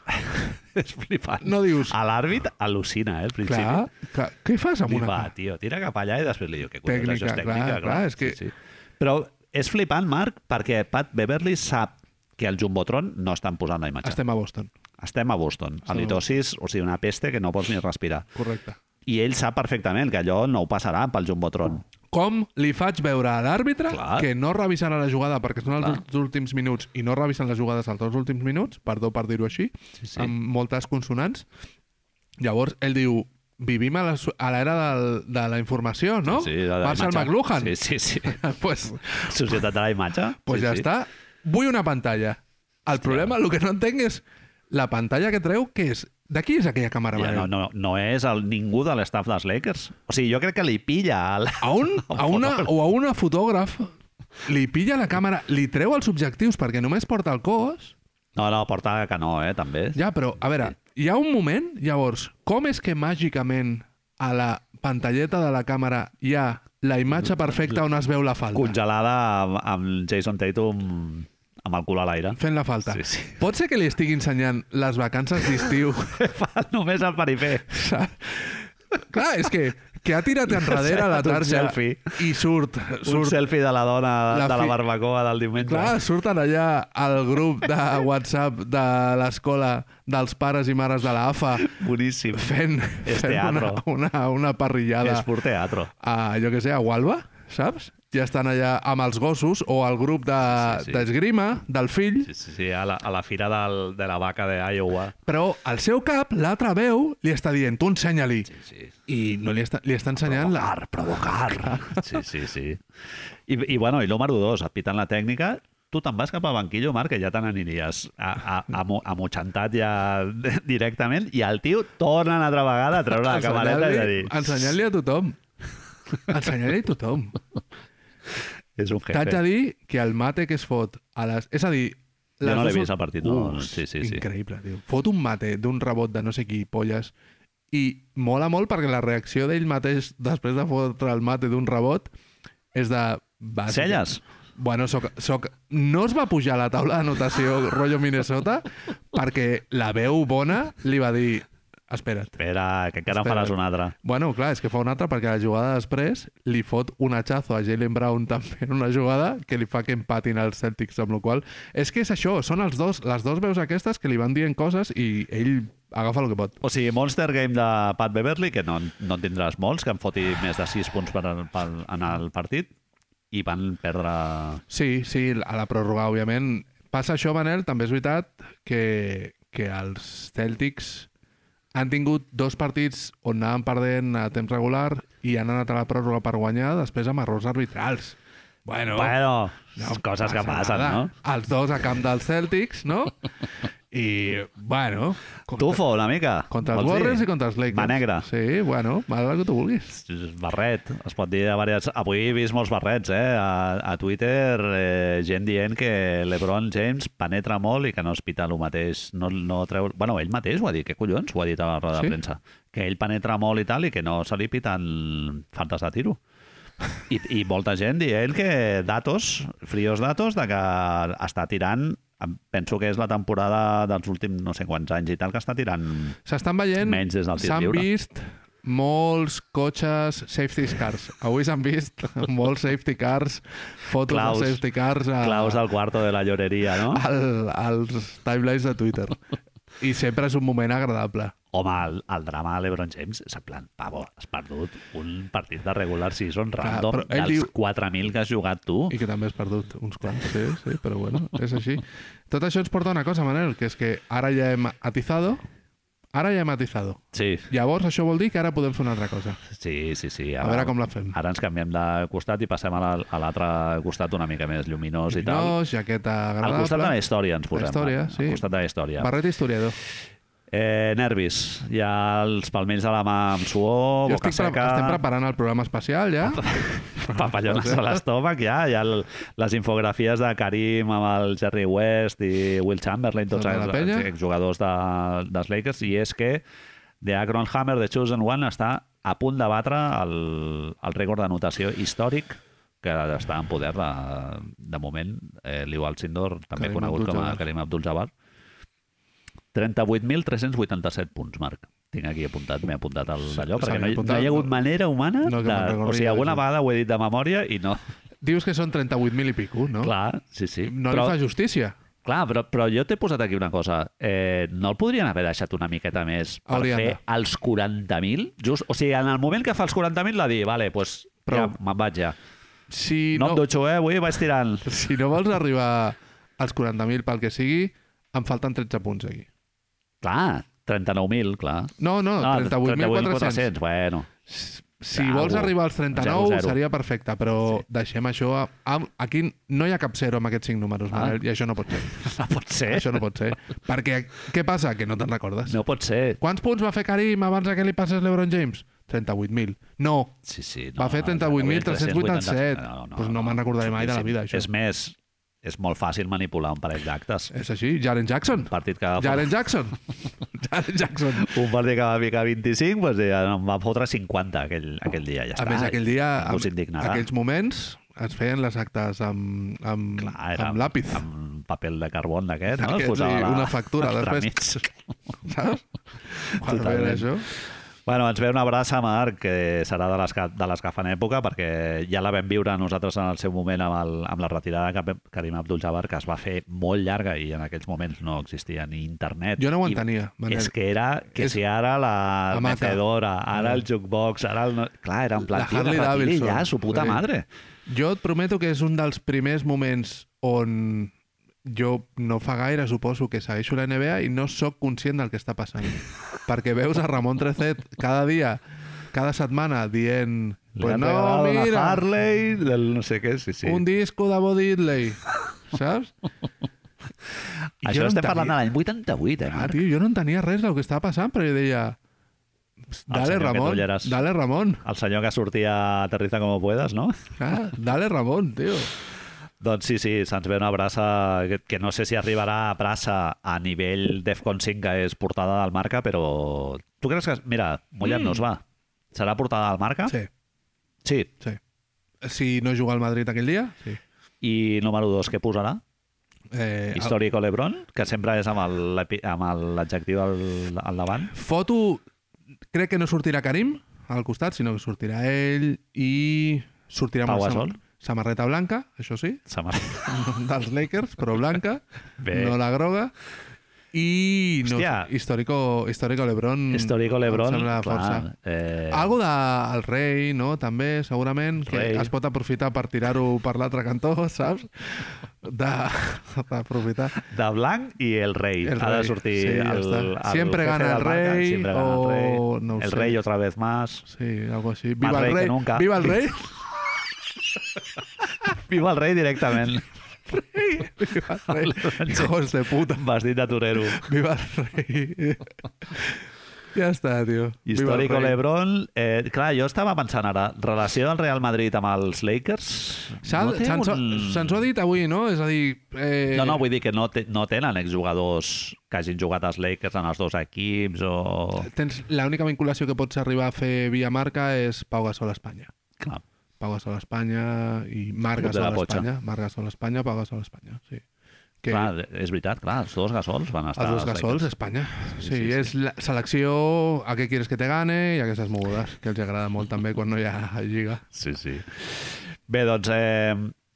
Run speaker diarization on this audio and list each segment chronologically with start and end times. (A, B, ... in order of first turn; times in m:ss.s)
0:00.3-0:03.9 A
0:01.4-0:01.9 B
0:03.4-0:05.3 B
0:04.9-0:14.2 A
0:06.8-0:08.4 B
0:14.0-0:14.7 B
0:15.0-0:18.2 A
0:15.9-0:16.2 B
0:18.3-0:18.8 B
0:19.0-0:21.8 A
0:22.1-0:31.4 B
0:23.9-0:24.3 A
0:30.0-0:30.3 A
0:32.4-0:39.6 B
0:36.2-0:38.4 A
0:39.2-0:40.9 A
0:40.4-0:47.5 B
0:43.0-0:43.3 A
0:47.1-0:52.7 A
0:51.6-0:53.9 B
0:54.4-0:57.9 B
0:58.3-1:00.0 A
0:59.9-1:08.8 B
1:08.5-1:13.4 A
1:12.4-1:16.2 B
1:15.6-1:17.6 A
1:17.7-1:23.4 B
1:20.5-1:22.2 A
1:23.0-1:26.0 A
1:24.3-1:24.8 B
1:25.6-1:31.8 B
1:31.6-1:32.5 A
1:32.3-1:35.3 B
1:33.0-1:33.8 A
1:35.0-1:35.9 A
1:36.0-1:42.3 B
1:40.5-1:41.1 A
1:42.2-1:45.1 A
1:45.2-1:48.5 B
1:48.5-1:48.9 A
1:49.1-1:50.8 B
1:50.2-1:52.8 A
1:51.5-1:52.0 B
1:53.5-2:04.7 A
2:03.2-2:05.4 B
2:06.3-2:07.4 B
2:08.8-2:09.4 A
2:09.1-2:17.1 B
2:12.4-2:14.2 A
2:17.7-2:22.1 B
2:22.7-2:32.4 B
2:23.7-2:24.2 A
2:32.4-2:33.9 A
2:33.1-2:46.6 B
2:46.6-2:52.7 A
2:53.3-2:54.6 A
2:54.7-3:01.1 B
3:01.7-3:09.2 B
3:08.9-3:11.1 A
3:09.7-3:13.2 B
3:13.9-3:15.8 B
3:15.6-3:18.3 A
3:16.5-3:20.0 B
3:19.9-3:36.2 A
3:37.1-3:46.2 A
3:46.2-3:55.6 B
3:46.8-3:47.9 A
3:54.1-3:54.6 A
3:55.2-3:57.0 A
3:56.9-3:59.2 B
3:59.8-4:01.3 B
4:01.5-4:08.9 A
4:06.6-4:07.5 B
4:08.9-4:15.4 B
4:16.1-4:19.4 B
4:17.1-4:17.5 A
4:19.5-4:25.6 A
4:20.4-4:21.1 B
4:25.1-4:27.0 B
4:26.4-4:29.1 A
4:27.5-4:28.4 B
4:29.0-4:29.8 B
4:30.5-4:35.0 A
4:34.1-4:38.0 B
4:36.2-4:46.4 A
4:43.3-4:44.1 B
4:47.0-4:58.1 A
4:56.6-4:57.4 B
4:59.5-5:07.8 A
5:03.2-5:04.5 B
5:05.2-5:06.4 B
5:08.2-5:09.9 B
5:09.8-5:11.2 A
5:10.6-5:11.7 B
5:12.0-5:22.2 A
5:16.5-5:17.0 B
5:21.2-5:21.5 B
5:22.7-5:23.4 B
5:23.1-5:24.7 A
5:24.6-5:29.3 B
5:30.0-5:34.1 A
5:31.8-5:33.5 B
5:34.3-5:45.6 B
5:34.9-5:36.6 A
5:41.9-5:43.0 A
5:45.5-5:46.2 A
5:46.2-5:50.2 B
5:50.2-5:57.3 A
5:50.8-5:54.5 B
5:57.3-5:59.8 B
5:58.5-5:59.3 A
6:00.3-6:01.4 B
6:01.2-6:07.0 A
6:05.4-6:11.0 B
6:10.0-6:14.7 A
6:12.5-6:14.4 B
6:15.2-6:17.3 B
6:16.4-6:17.1 A
6:17.8-6:37.2 A
6:29.4-6:30.5 B
6:32.3-6:32.8 B
6:33.3-6:33.6 B
6:35.3-6:37.0 B
6:37.7-6:40.9 B
6:41.4-6:48.4 B
6:48.9-6:51.8 B
6:50.6-6:53.6 A
6:53.4-6:55.9 B
6:57.6-6:59.6 A
6:57.6-6:58.4 B
6:59.3-7:01.8 B
7:02.7-7:04.6 B
7:02.9-7:03.9 A
7:04.6-7:07.0 A
7:07.2-7:08.7 B
7:09.4-7:20.0 A
7:17.8-7:18.2 B
7:20.8-7:21.1 A
7:22.0-7:23.8 B
7:24.2-7:25.6 A
7:26.3-7:27.0 B
7:26.7-7:31.1 A
7:31.1-7:31.8 B
7:32.5-7:39.2 B
7:37.0-7:37.6 A
7:39.3-7:40.0 A
7:39.9-7:42.9 B
7:42.0-7:42.4 A
7:43.7-7:48.0 B
7:44.4-7:44.9 A
7:46.5-7:48.9 A
7:48.7-7:57.0 B
7:51.4-7:51.9 A
7:57.1-8:03.8 A
7:58.4-8:03.0 B
8:03.9-8:06.4 B
8:04.8-8:06.0 A
8:08.2-8:09.7 A
8:10.1-8:12.8 B
8:11.3-8:12.1 A
8:12.7-8:13.9 A
8:13.7-8:16.0 B
8:16.5-8:18.2 B
8:17.4-8:24.4 A
8:23.0-8:26.4 B
8:26.1-8:31.5 A
8:31.4-8:35.5 B
8:36.4-8:40.8 B
8:38.2-8:38.9 A
8:41.4-8:41.7 B
8:41.5-8:44.3 A
8:43.6-8:50.8 B
8:45.0-8:45.5 A
8:50.9-8:53.3 A